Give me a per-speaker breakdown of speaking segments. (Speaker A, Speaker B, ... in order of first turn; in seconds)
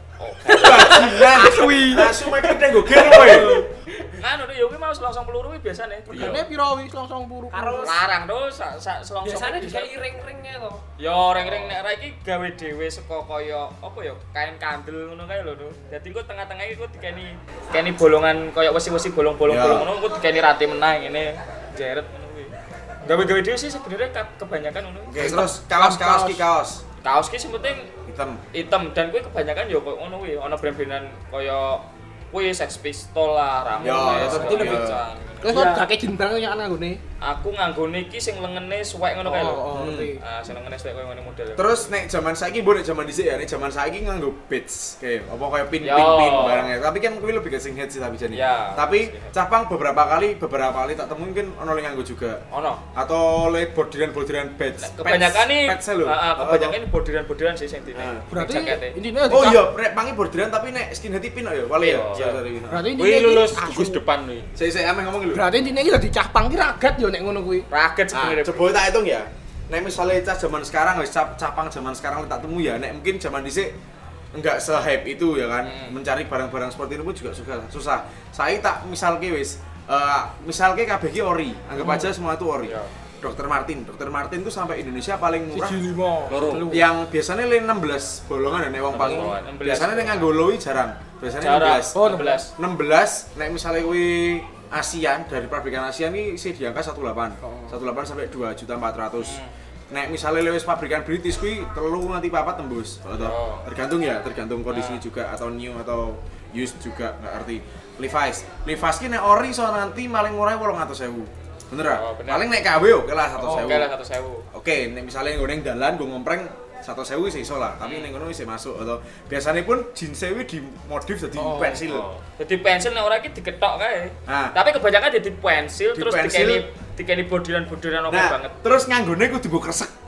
Speaker A: 0.2-1.1, 4.2-6.3, 7.8-9.9, 11.0-25.2, 27.0-27.9, 28.5-35.6, 37.2-41.9, 45.8-46.7, 48.3-49.3, 52.5-52.8, 54.8-59.0, 61.8-62.4, 67.7-68.8, 75.6-76.0, 82.6-82.9, 89.1-90.4, 91.4-92.5, 99.2-99.5, 103.2-103.7, 104.7-105.0, 111.8-112.5, 113.4-114.5, 117.8-118.1, 122.4-128.6
Speaker B: 0.5-1.4, 2.8-4.1, 7.5-8.0, 9.2-10.8, 35.5-35.9
Speaker C: 0.5-3.5, 19.5-19.9, 25.1-26.8, 28.1-28.4, 33.8-35.0, 39.7-40.1, 41.6-52.4, 53.0-56.8, 58.0-58.2, 59.3-62.9, 64.5-65.5, 68.1-73.7, 74.3-85.8, 86.7-92.0, 92.6-113.9, 114.5-122.1, 124.3-124.5, 126.0-126.6, 128.1-129.9
Speaker D: 1.2-2.3, 3.0-3.6, 6.1-8.0, 25.2-26.4, 33.8-34.9, 35.4-37.0, 39.2-40.2, 58.3-59.7, 62.7-64.0, 65.3-67.7, 81.8-82.1, 85.5-86.9, 92.0-92.4, 97.4-97.8, 121.4-121.8
Speaker E: 6.1-6.4, 62.9-64.5, 86.3-86.7, 88.9-89.5, 121.9-122.2